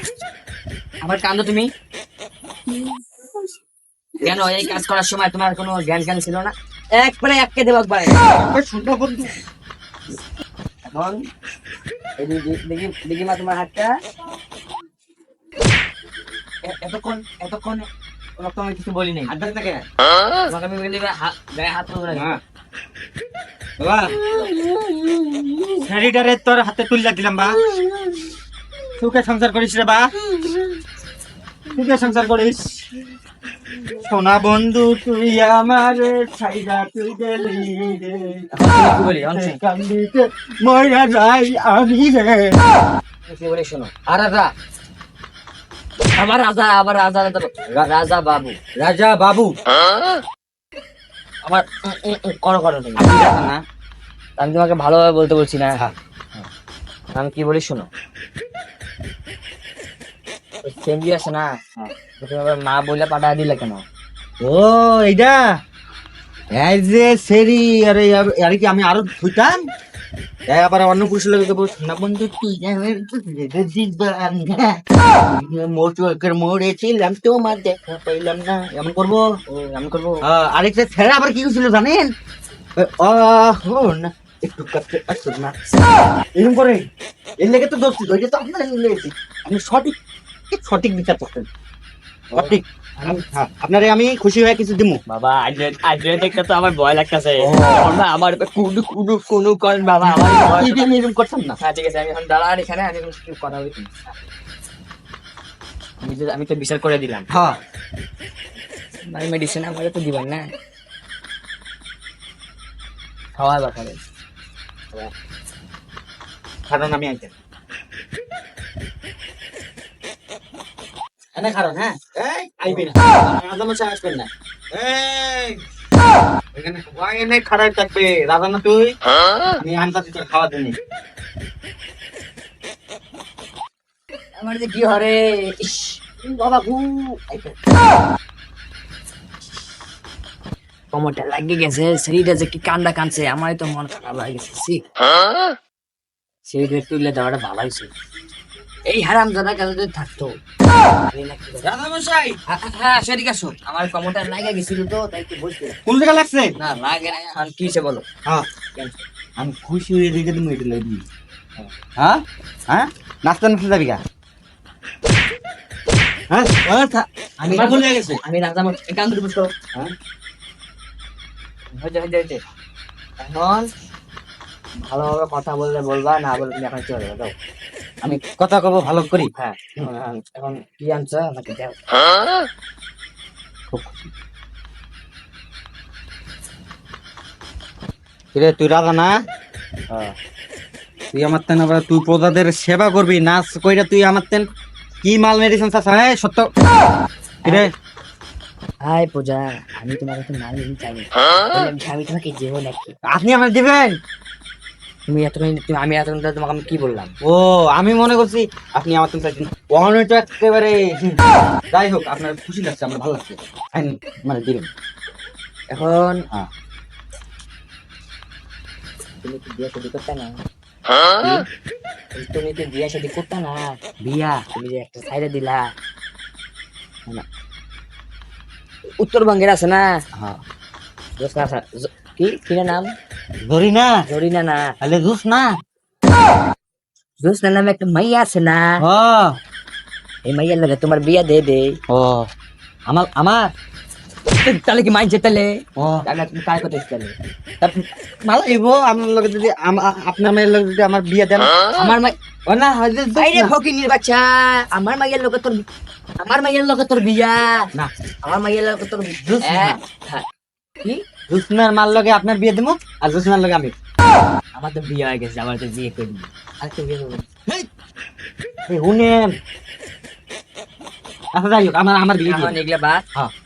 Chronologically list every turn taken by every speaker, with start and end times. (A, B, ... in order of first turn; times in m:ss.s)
0:01.0-0:01.7 A
0:04.2-0:08.4 A
0:08.2-0:09.3 B
0:10.9-0:11.2 A
0:12.2-0:13.9 A
0:16.6-0:19.3 A
0:19.3-0:19.8 B
0:20.5-0:22.4 A
0:22.1-0:22.4 B
0:23.8-0:24.1 B
0:24.2-0:25.8 A
0:25.8-0:27.6 B
0:27.6-0:28.2 A
0:29.0-0:30.1 B
0:31.7-0:32.9 B
0:33.8-0:42.6 B
0:38.5-0:39.6 A
0:43.2-0:43.9 A
0:44.1-0:44.5 B
0:46.2-0:48.6 A
0:48.8-0:49.6 B
0:51.4-0:53.1 A
0:53.0-0:53.6 B
0:54.4-0:55.8 A
0:57.2-0:57.9 A
1:00.6-1:01.5 A
1:02.2-1:03.8 A
1:04.4-1:05.4 B
1:06.5-1:09.5 B
1:10.5-1:19.2 B
1:19.5-1:20.2 A
1:20.2-1:22.1 B
1:22.8-1:25.8 B
1:26.4-1:26.9 B
1:27.4-1:30.0 B
1:30.5-1:31.5 B
1:32.3-1:33.2 A
1:32.3-1:35.0 B
1:35.1-1:40.9 A
1:37.4-1:37.8 B
1:40.0-1:41.6 B
1:41.6-1:43.9 A
1:46.0-1:47.3 A
1:47.3-1:47.6 B
1:49.1-1:50.5 A
1:53.4-1:54.0 A
1:56.7-1:57.3 B
2:01.3-2:05.6 B
2:06.5-2:09.0 B
2:09.6-2:10.8 B
2:14.4-2:17.5 A
2:20.9-2:24.8 A
2:26.5-2:27.9 A
2:28.9-2:30.3 A
2:31.1-2:31.7 A
2:31.6-2:32.4 B
2:32.5-2:35.8 A
2:35.8-2:36.5 B
2:36.6-2:38.0 A
2:39.4-2:41.0 B
2:42.0-2:44.0 B
2:46.3-2:46.6 B
2:46.6-2:49.5 A
2:47.4-2:48.2 B
2:51.8-2:52.4 A
2:53.2-2:53.7 A
2:54.8-2:57.3 A
2:58.0-2:59.9 B
2:58.8-3:01.8 A
3:03.7-3:04.1 B
3:08.3-3:09.1 B
3:09.9-3:10.1 A
3:11.1-3:14.5 B
3:15.0-3:16.5 B
3:17.4-3:17.7 A
3:18.8-3:22.9 A
3:23.1-3:24.0 B
3:25.1-3:27.1 A
3:27.2-3:31.2 B
3:31.7-3:34.7 B
3:35.7-3:36.2 A
3:39.2-3:40.4 A
3:42.1-3:45.7 A
3:49.0-3:49.9 A
3:50.2-3:50.4 B
3:51.2-3:52.9 A
3:53.4-3:54.0 B
3:54.1-3:54.7 A
3:54.8-3:55.5 B
3:57.2-3:58.7 A
3:58.8-3:59.4 B
4:00.2-4:01.8 A
4:01.9-4:02.3 B
4:02.9-4:03.3 B
4:03.2-4:03.5 A
4:04.4-4:07.2 A
4:05.8-4:06.0 B
4:07.6-4:11.9 B
4:11.7-4:12.1 A
4:12.5-4:13.5 B
4:13.2-4:15.6 A
4:16.2-4:17.6 A
4:18.2-4:20.2 A
4:19.2-4:19.8 B
4:21.3-4:23.7 B
4:24.6-4:27.2 A
4:28.7-4:29.4 B
4:31.3-4:32.5 B
4:32.2-4:33.0 A